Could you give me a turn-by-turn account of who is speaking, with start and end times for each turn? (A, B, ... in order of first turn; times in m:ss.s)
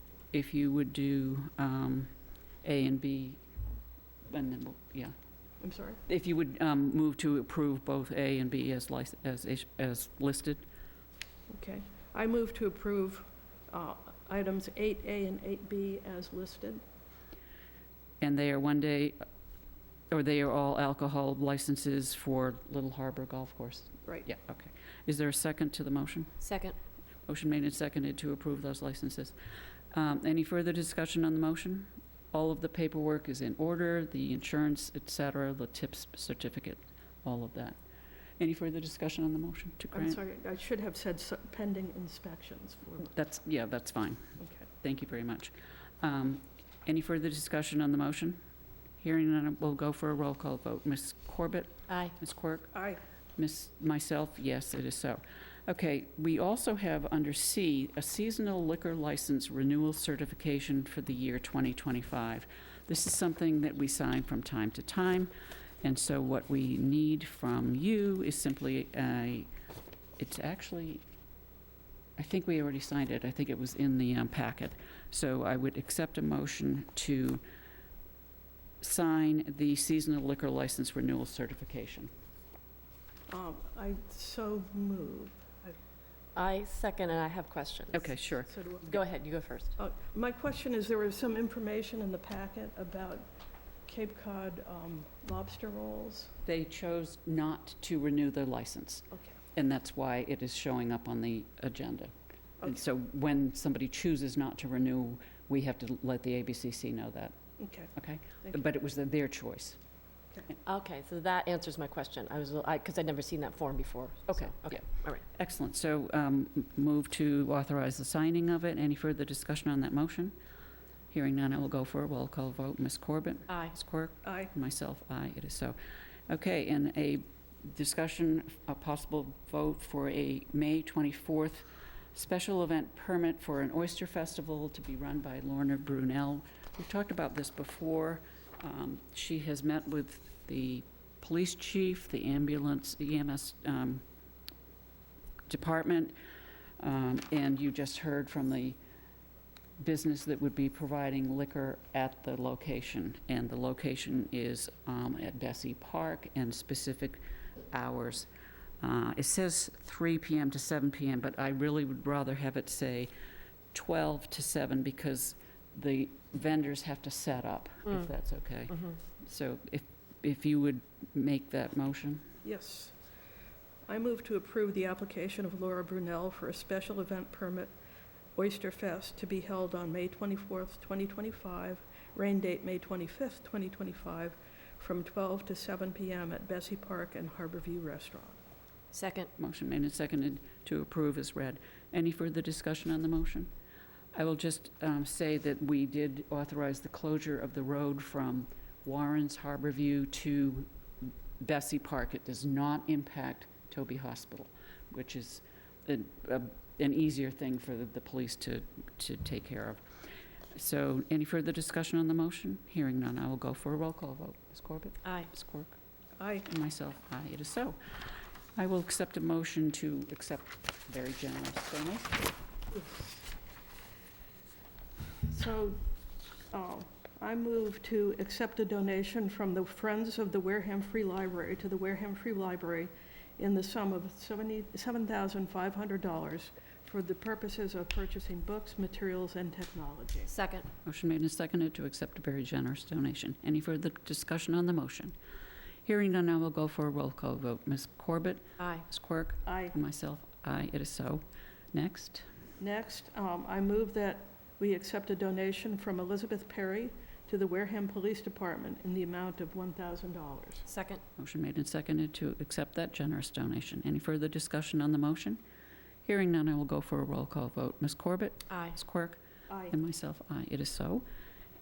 0:00.3-0:02.1 A
0:02.6-0:03.4 A
0:04.3-0:05.1 A
0:05.6-0:06.0 B
0:06.1-0:10.6 A
0:11.5-0:16.8 B
0:18.2-0:19.2 A
0:20.1-0:26.3 A
0:26.4-0:26.7 C
0:27.3-0:29.3 A
0:29.9-0:37.8 A
0:38.4-0:40.2 A
0:39.9-0:43.1 B
0:43.0-0:48.4 A
0:49.0-0:52.7 A
0:51.9-0:52.1 C
0:52.7-0:53.0 B
0:53.4-1:05.3 A
1:05.8-1:09.5 A
1:10.2-1:11.0 A
1:12.2-1:17.4 A
1:18.8-1:22.1 A
1:23.3-1:25.8 B
1:26.3-1:28.2 C
1:27.9-1:28.5 A
1:28.5-1:28.9 B
1:28.8-1:29.7 C
1:29.8-1:33.3 B
1:33.9-1:36.3 B
1:36.4-1:42.1 A
1:42.6-1:47.3 A
1:47.6-1:48.6 B
1:47.9-1:49.8 A
1:50.6-1:55.2 C
1:54.3-2:00.3 A
2:01.1-2:05.8 A
2:03.5-2:03.7 C
2:04.2-2:04.5 B
2:06.3-2:24.0 A
2:25.5-2:26.1 A
2:26.8-2:28.8 A
2:29.8-2:38.3 A
2:38.8-2:43.1 A
2:43.7-2:52.3 A
2:52.4-2:52.9 B
2:53.9-2:57.7 B
2:58.4-3:08.4 B
3:08.9-3:09.3 C
3:09.4-3:13.5 A
3:14.1-3:29.8 A
3:30.5-3:35.8 A
3:35.0-3:35.3 C
3:36.2-3:36.5 B
3:36.5-3:37.8 A
3:38.6-3:42.3 A
3:42.7-3:43.3 B
3:45.3-3:45.8 B
3:46.5-4:00.3 B
4:00.3-4:00.7 C
4:00.8-4:05.1 A
4:05.8-4:12.2 A
4:08.6-4:08.8 C
4:09.4-4:09.7 B
4:12.6-4:20.7 B
4:20.7-4:21.0 C
4:21.2-4:25.4 A
4:26.0-4:31.0 A
4:28.5-4:28.8 C
4:29.5-4:29.7 B